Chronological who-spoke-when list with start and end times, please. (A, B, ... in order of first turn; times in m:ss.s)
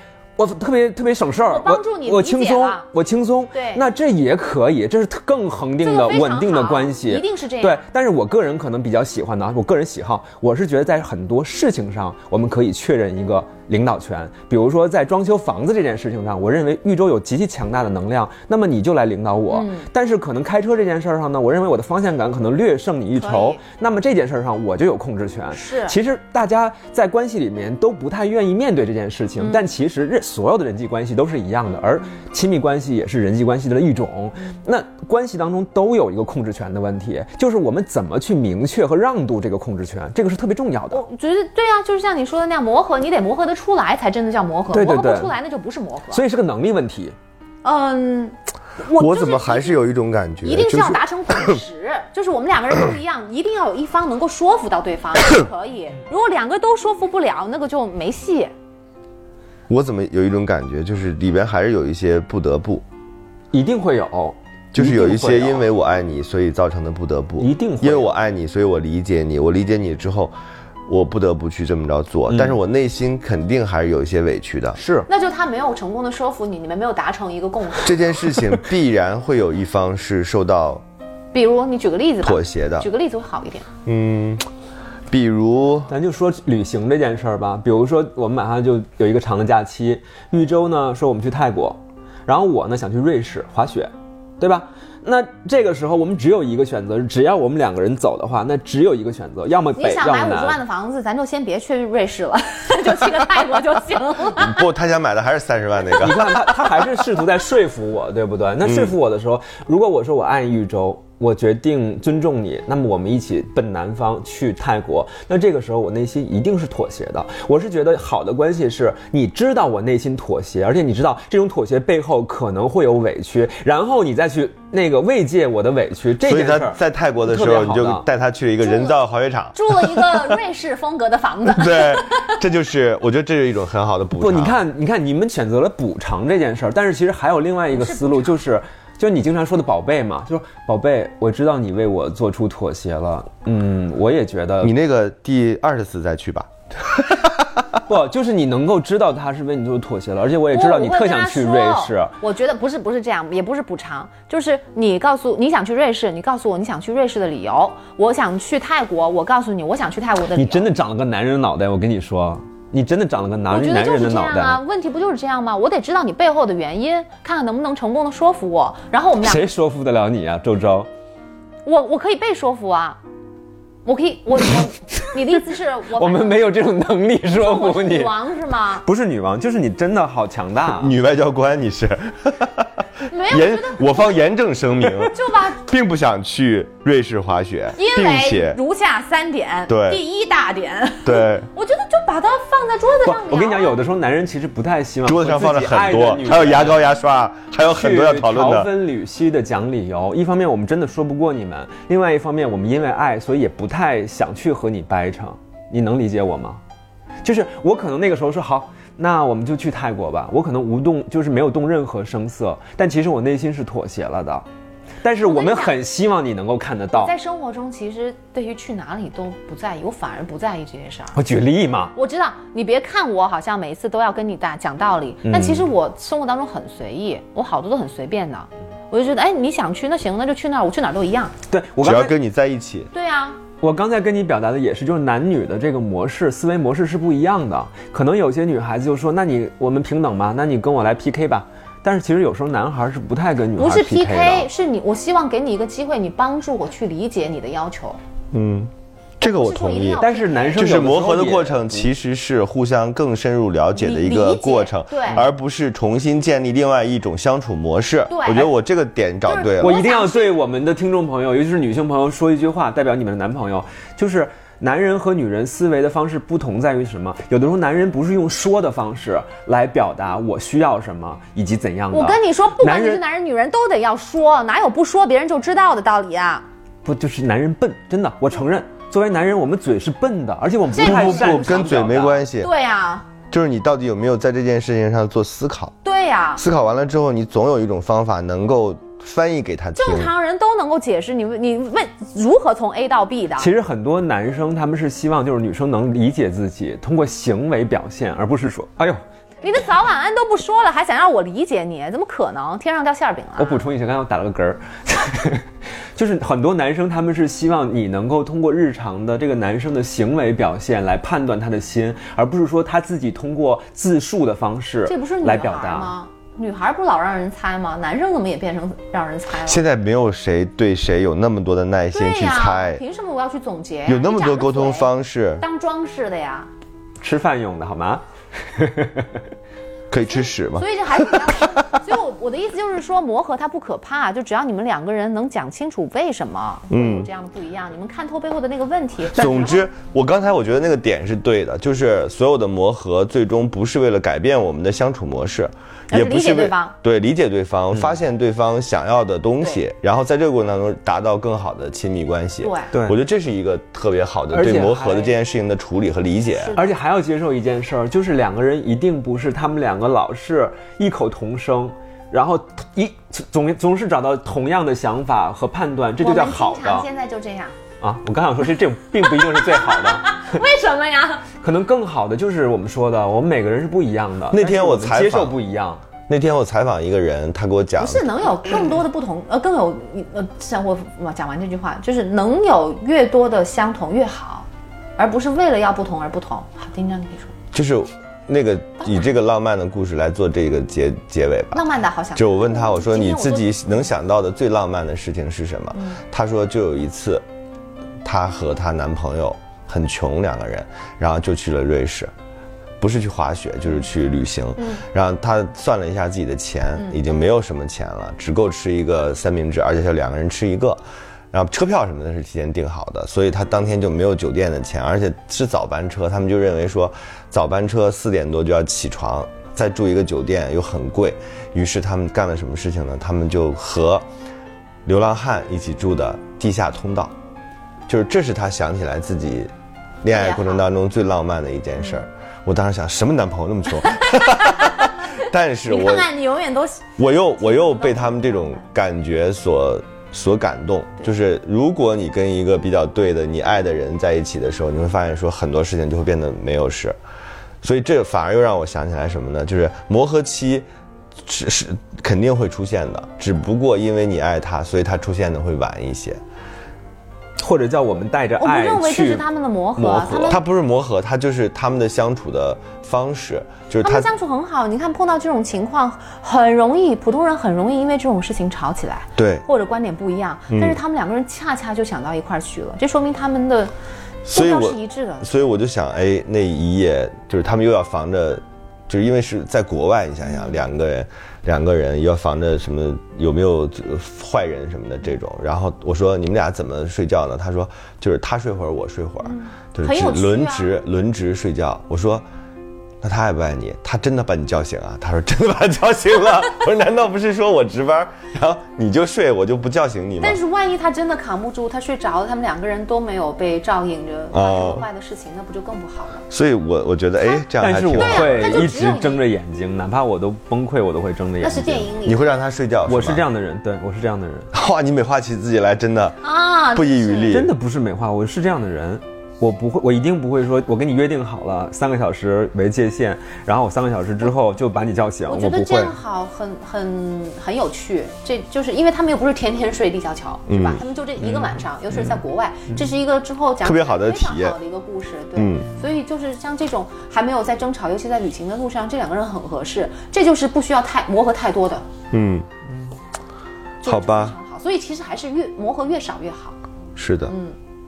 0:00.4-0:41.0 A
0:01.5-0:02.9 B
0:03.5-0:03.8 B
0:05.8-0:07.8 B
0:19.5-0:19.9 B
0:23.2-0:23.6 B
0:25.5-0:26.0 B
0:29.4-0:29.6 B
0:40.9-0:46.2 B
0:44.7-0:45.3 A
0:46.1-0:47.1 A
0:47.6-0:49.8 B
0:49.0-0:51.6 C
0:50.4-0:58.5 B
0:59.7-1:02.8 C
1:03.5-1:05.7 A
1:04.7-1:10.3 C
1:07.4-1:08.1 A
1:10.9-1:14.8 C
1:12.3-1:12.6 A
1:14.8-1:15.1 A
1:15.1-1:18.1 B
1:17.8-1:20.8 C
1:21.3-1:23.7 B
1:22.2-1:22.9 C
1:23.8-1:24.4 C
1:25.1-1:25.9 C
1:25.9-1:40.6 A
1:39.7-1:44.6 B
1:44.4-1:46.4 C
1:46.0-2:08.0 A
1:48.7-1:48.9 C
2:06.2-2:10.0 C
2:08.6-2:09.0 B
2:09.5-2:12.4 B
2:11.5-2:14.6 C
2:14.2-2:24.7 A
2:17.7-2:18.4 B
2:24.6-2:27.8 C
2:27.9-2:32.1 A
2:30.5-2:40.7 B
2:40.3-2:44.6 A
2:43.5-2:49.4 B
2:49.2-2:50.9 A
2:51.6-2:53.0 B
2:53.8-2:56.6 B
2:56.0-2:58.1 A
2:57.4-2:58.8 B
2:58.8-3:00.9 A
3:00.7-3:02.7 C
3:03.1-3:04.2 B
3:03.3-3:08.6 C
3:05.1-3:05.6 B
3:07.8-3:13.8 B
3:09.7-3:10.0 C
3:11.0-3:11.5 C
3:13.0-3:16.8 A
3:15.0-3:18.7 C
3:17.6-3:26.6 A
3:27.2-3:34.4 A
3:35.0-3:37.1 A
3:35.2-3:35.8 B
3:36.9-3:41.2 B
3:41.1-3:41.9 A
3:41.9-3:51.3 B
3:45.2-3:45.7 A
3:51.5-3:52.1 A
3:51.8-3:52.9 C
3:52.9-3:53.4 B
3:53.6-4:04.5 A
4:03.6-4:08.0 B
4:08.3-4:10.0 C
4:09.2-4:10.7 B
4:10.0-4:11.9 A
4:10.5-4:19.8 C
4:13.7-4:15.2 B
4:18.1-4:18.5 B
4:19.2-4:20.4 B
4:19.6-4:33.0 A
4:31.9-4:36.4 B
4:36.8-4:42.2 A
4:40.7-4:41.6 B
4:40.8-4:42.5 C
4:42.4-4:43.1 B
4:43.3-4:45.7 C
4:45.8-4:46.4 B
4:46.4-4:50.1 C
4:49.7-4:53.5 B
4:53.4-4:59.0 A
4:59.4-5:03.6 B
5:03.4-5:15.9 A
5:14.9-5:19.6 B
5:19.4-5:22.8 C
5:21.9-5:26.5 B
5:23.9-5:25.4 C
5:27.0-5:29.2 A
5:29.9-5:31.6 C
5:30.1-5:39.6 B
5:36.7-5:37.1 C
5:39.1-5:56.5 C
5:39.2-5:39.5 A
5:45.9-5:46.7 B
5:52.4-5:52.7 B
5:52.7-5:53.0 A
5:54.3-5:55.1 A
5:56.3-5:56.7 B
5:56.5-6:06.9 A
6:06.0-6:07.5 B
6:07.8-6:10.3 A
6:09.0-6:11.3 B
6:11.4-6:15.8 A
6:14.3-6:15.4 C
6:16.1-6:18.3 C
6:17.8-6:27.3 B
6:27.5-6:31.6 C
6:31.5-6:33.6 B
6:32.2-6:37.2 C
6:35.7-6:36.0 B
6:38.0-6:42.1 C
6:42.8-6:50.8 C
6:44.6-6:44.8 B
6:51.3-7:04.0 C
7:04.9-7:07.1 C
7:07.9-7:09.5 C
7:10.0-7:16.1 C
7:10.1-7:10.6 B
7:13.8-7:14.9 B
7:15.7-7:18.6 B
7:17.0-7:27.0 C
7:27.6-7:30.6 C
7:31.2-7:36.2 C
7:37.4-7:39.2 A
7:38.4-7:40.4 B
7:39.8-7:40.4 A
7:40.3-7:44.1 C
7:43.8-7:53.7 B
7:49.2-7:49.4 C
7:50.5-7:50.8 C
7:54.2-8:12.2 C
7:54.3-7:55.3 B
8:09.2-8:10.7 B
8:13.0-8:20.4 C
8:20.2-8:26.2 B
8:24.3-8:24.8 C
8:26.3-8:28.7 C
8:27.6-8:31.9 A
8:28.0-8:29.2 B
8:31.4-8:32.2 B
8:32.0-8:33.2 C
8:32.9-8:34.5 A
8:34.5-8:36.2 C
8:36.2-8:37.3 B
8:36.7-8:37.5 C
8:37.3-8:45.9 A
8:45.3-9:01.9 B
8:50.5-8:50.8 C
8:53.6-8:54.6 C
8:55.4-8:55.7 C
9:02.1-9:02.5 C
9:03.8-9:04.4 C
9:03.8-9:06.6 B
9:07.0-9:07.3 C
9:07.3-9:07.6 B